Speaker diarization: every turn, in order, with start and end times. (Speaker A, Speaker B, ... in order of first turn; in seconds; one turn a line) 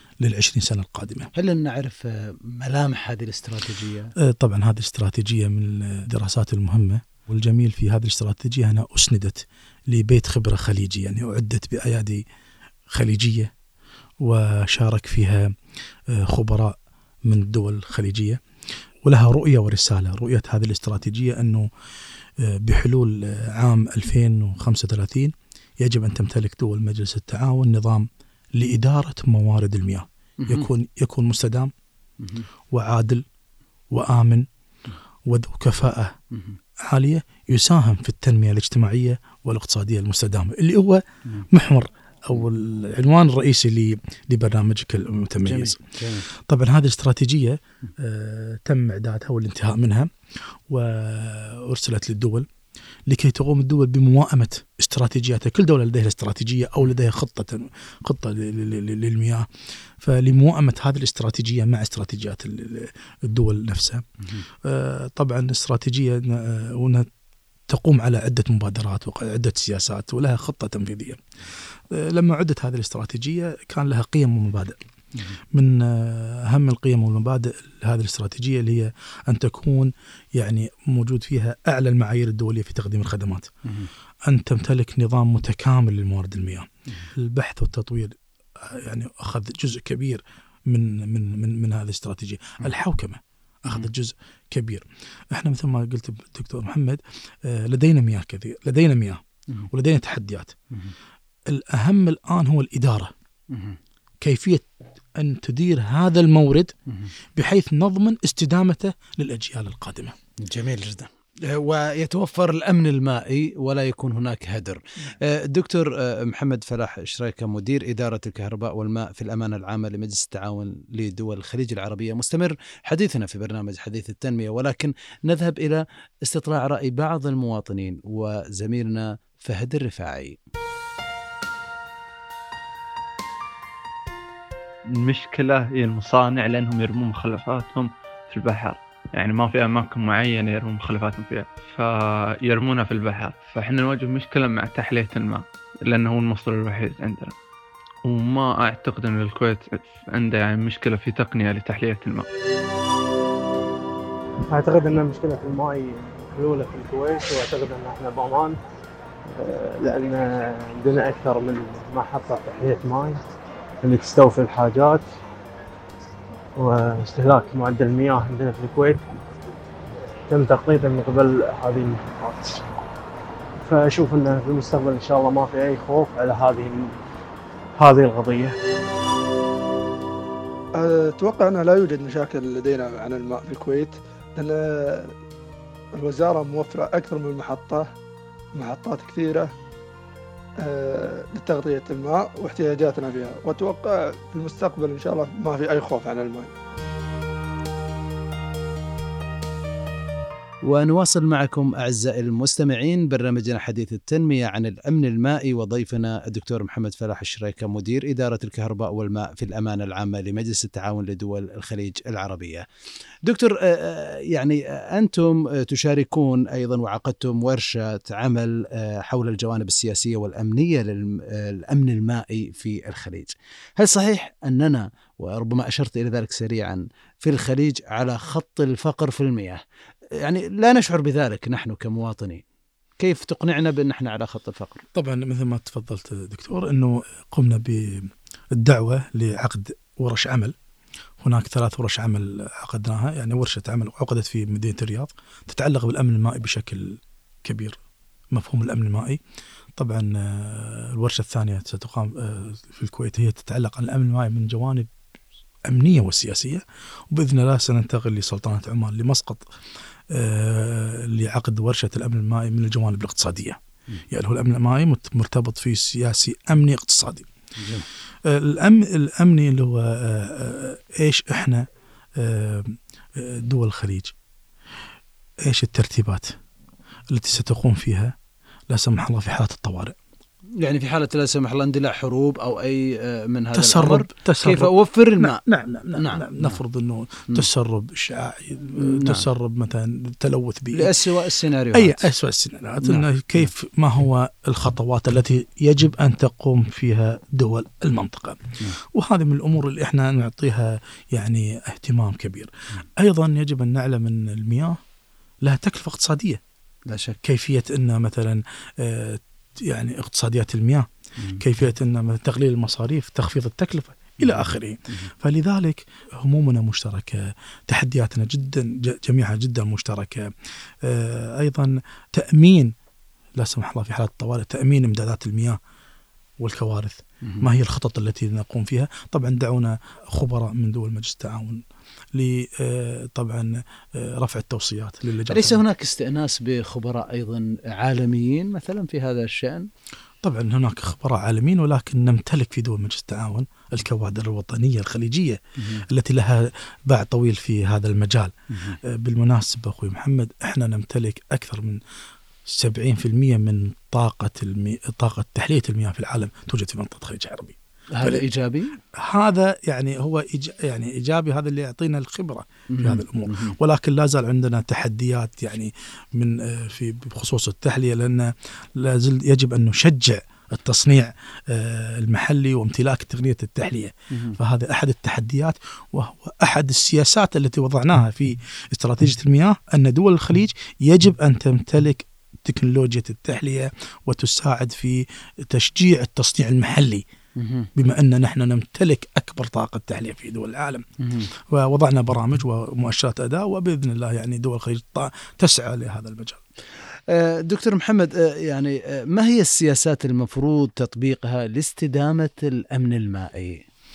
Speaker A: 0.2-1.3
Speaker B: 1.4-4.1
Speaker A: 4.2-12.2
Speaker A: 12.9-13.5
Speaker A: 14.2-15.6
Speaker A: 16.1-18.4
Speaker A: 19.0-21.7
Speaker A: 22.4-31.7
Speaker B: 30.4-30.7
Speaker B: 32.2-32.5
Speaker A: 32.7-33.2
Speaker A: 33.9-34.5
Speaker A: 35.3-36.1
Speaker B: 36.3-36.6
Speaker A: 36.8-52.5
Speaker B: 45.5-46.3
Speaker A: 53.1-59.5
Speaker A: 60.0-64.0
Speaker A: 64.6-67.1
Speaker A: 67.7-71.2
Speaker A: 71.9-74.8
Speaker A: 75.5-83.5
Speaker B: 83.6-83.9
Speaker A: 84.3-100.5
Speaker A: 101.5-103.1
Speaker B: 103.5-103.8
Speaker A: 104.2-106.7
Speaker A: 107.3-110.2
Speaker B: 110.4-130.4
Speaker C: 134.9-147.3
Speaker C: 148.0-152.3
Speaker D: 154.5-158.6
Speaker D: 159.3-163.2
Speaker D: 163.8-165.1
Speaker D: 166.6-169.2
Speaker D: 170.3-172.6
Speaker D: 173.6-176.9
Speaker D: 177.8-178.5
Speaker E: 180.8-185.1
Speaker E: 186.0-187.9
Speaker E: 188.6-189.5
Speaker E: 190.6-196.5
Speaker B: 200.6-212.7
Speaker B: 213.2-229.6
Speaker B: 230.2-232.4
Speaker B: 233.0-234.8
Speaker A: 234.9-240.5
Speaker A: 241.2-247.8
Speaker A: 248.3-249.2
Speaker A: 249.8-254.9
Speaker A: 255.7-259.4
Speaker A: 260.1-263.6
Speaker A: 264.1-267.3
Speaker B: 267.6-267.9
Speaker A: 268.2-271.6
Speaker A: 272.2-274.1
Speaker A: 275.4-276.4
Speaker A: 277.1-278.1
Speaker A: 278.7-279.9
Speaker B: 280.6-285.4
Speaker A: 283.5-290.9
Speaker B: 285.9-286.6
Speaker B: 288.8-289.2
Speaker B: 290.7-292.0
Speaker A: 291.7-304.8
Speaker B: 292.8-293.5
Speaker A: 305.4-306.4
Speaker B: 306.9-307.2
Speaker A: 307.2-322.7
Speaker B: 314.2-315.1
Speaker A: 323.4-325.6
Speaker A: 326.4-335.6
Speaker B: 335.3-339.7
Speaker A: 340.2-351.8
Speaker B: 345.6-345.8
Speaker B: 348.5-348.8
Speaker A: 352.4-358.2
Speaker B: 357.9-358.8
Speaker A: 358.9-387.0
Speaker B: 362.7-363.5
Speaker B: 387.4-387.7
Speaker A: 387.8-390.9
Speaker B: 391.0-391.3
Speaker A: 391.5-396.4
Speaker B: 397.1-403.6